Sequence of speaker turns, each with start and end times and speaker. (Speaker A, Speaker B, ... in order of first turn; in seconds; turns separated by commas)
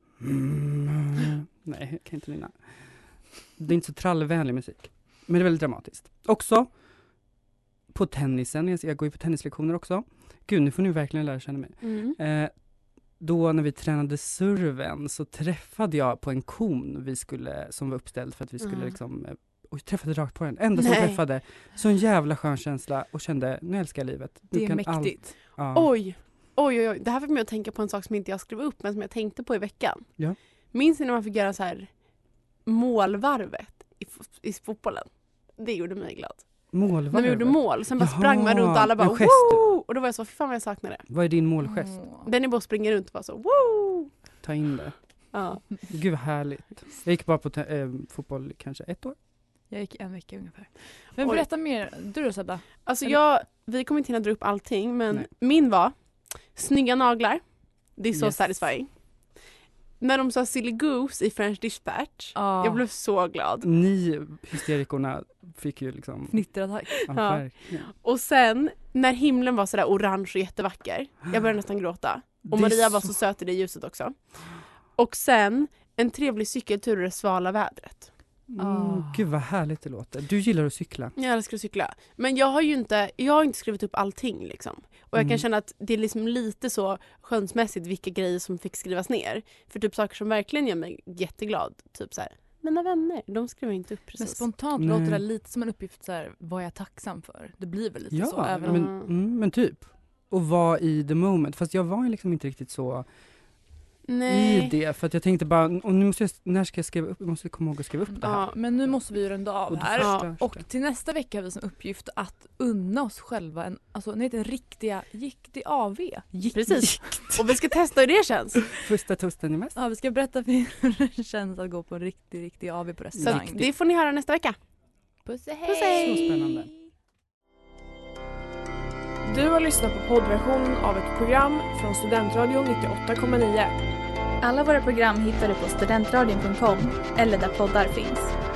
Speaker A: 0.2-6.7, Speaker A: 7.9-12.6, Speaker B: 11.8-12.2, Speaker A: 13.1-25.9, Speaker B: 18.6-18.9, Speaker B: 20.8-21.2, Speaker C: 24.5-25.4, Speaker B: 25.7-30.2, Speaker B: 30.7-31.9, Speaker B: 32.6-41.1, Speaker A: 36.7-39.7, Speaker A: 41.1-42.0, Speaker C: 41.6-42.3, Speaker B: 42.2-44.1, Speaker A: 44.4-45.0, Speaker B: 45.3-45.8, Speaker A: 45.7-49.1, Speaker C: 49.7-53.2, Speaker B: 52.8-55.9, Speaker B: 56.5-57.4, Speaker B: 57.9-58.9, Speaker A: 58.1-58.5, Speaker B: 60.0-63.7, Speaker C: 62.3-62.8, Speaker A: 63.6-66.4, Speaker C: 66.3-67.0, Speaker A: 67.0-67.9, Speaker B: 67.1-74.2, Speaker A: 72.5-73.2, Speaker B: 75.0-78.1, Speaker A: 78.5-81.1, Speaker C: 78.6-79.1, Speaker B: 81.2-94.4, Speaker A: 85.2-85.4, Speaker C: 94.2-98.9, Speaker A: 94.8-95.2, Speaker A: 98.1-103.1, Speaker B: 98.6-99.1, Speaker B: 104.0-104.7, Speaker A: 104.2-109.0, Speaker C: 108.1-117.1, Speaker A: 109.7-110.6, Speaker B: 110.0-110.2, Speaker B: 116.5-118.7, Speaker A: 116.8-117.4, Speaker A: 118.7-119.8, Speaker C: 119.8-123.6, Speaker B: 123.2-124.5, Speaker C: 125.2-126.5, Speaker B: 125.6-126.2, Speaker A: 125.9-126.7, Speaker D: 129.2-133.7, Speaker E: 134.4-138.3